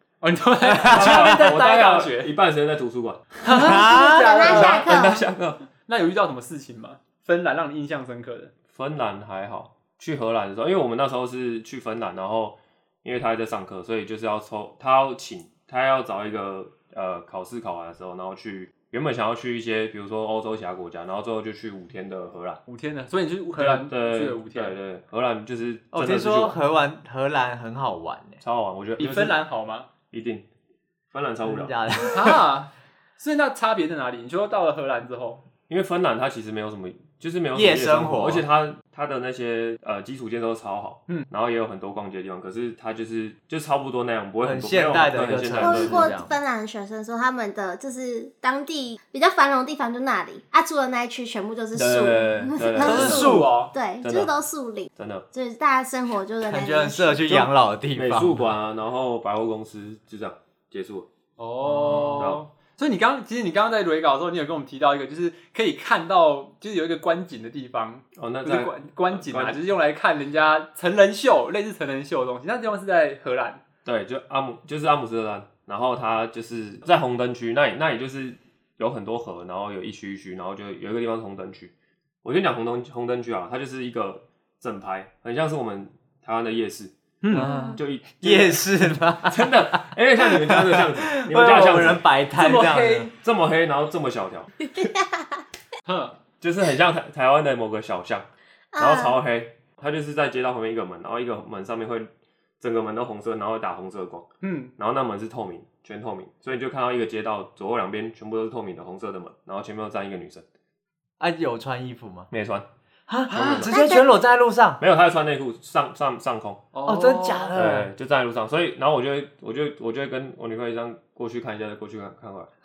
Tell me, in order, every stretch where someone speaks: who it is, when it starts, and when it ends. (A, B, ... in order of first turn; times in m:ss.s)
0:00.2-0:02.3 A
0:00.7-0:01.5 B
0:00.8-0:03.4 C
0:03.4-0:05.2 A
0:03.4-0:04.6 B
0:04.0-0:05.2 D
0:04.4-0:05.6 C
0:05.9-0:08.5 A
0:08.7-0:22.6 C
0:22.7-0:24.8 A
0:23.6-0:26.6 C
0:25.9-0:28.4 B
0:28.4-0:29.4 C
0:29.0-0:29.9 A
0:30.1-0:30.4 C
0:31.1-0:31.7 C
0:31.4-0:32.4 B
0:32.1-0:35.4 A
0:35.7-0:46.1 C
0:37.5-0:38.4 B
0:44.4-0:46.3 B
0:45.6-0:57.2 D
0:51.7-0:53.4 C
0:52.8-0:53.5 B
0:52.8-0:53.7 A
0:54.0-0:54.3 C
0:55.0-0:55.2 C
0:56.4-0:58.5 B
0:57.3-1:01.1 C
1:01.4-1:13.6 A
1:01.6-1:02.3 B
1:02.1-1:02.4 C
1:08.2-1:09.6 C
1:13.8-1:21.7 C
1:22.2-1:26.9 C
1:27.2-1:27.5 A
1:27.3-1:33.1 B
1:27.4-1:27.8 D
1:27.6-1:32.0 C
1:32.4-1:33.1 A
1:33.2-1:34.5 C
1:34.7-1:35.4 D
1:35.8-1:36.2 A
1:36.4-1:50.4 C
1:38.7-1:39.2 D
1:44.4-1:44.7 A
1:51.2-1:52.3 B
1:52.3-1:52.6 C
1:53.1-1:54.8 B
1:53.3-1:53.6 A
1:53.3-1:53.8 C
1:53.7-1:54.1 D
1:54.8-1:56.6 C
1:56.7-1:57.6 A
1:56.8-1:57.9 B
1:57.5-2:02.5 C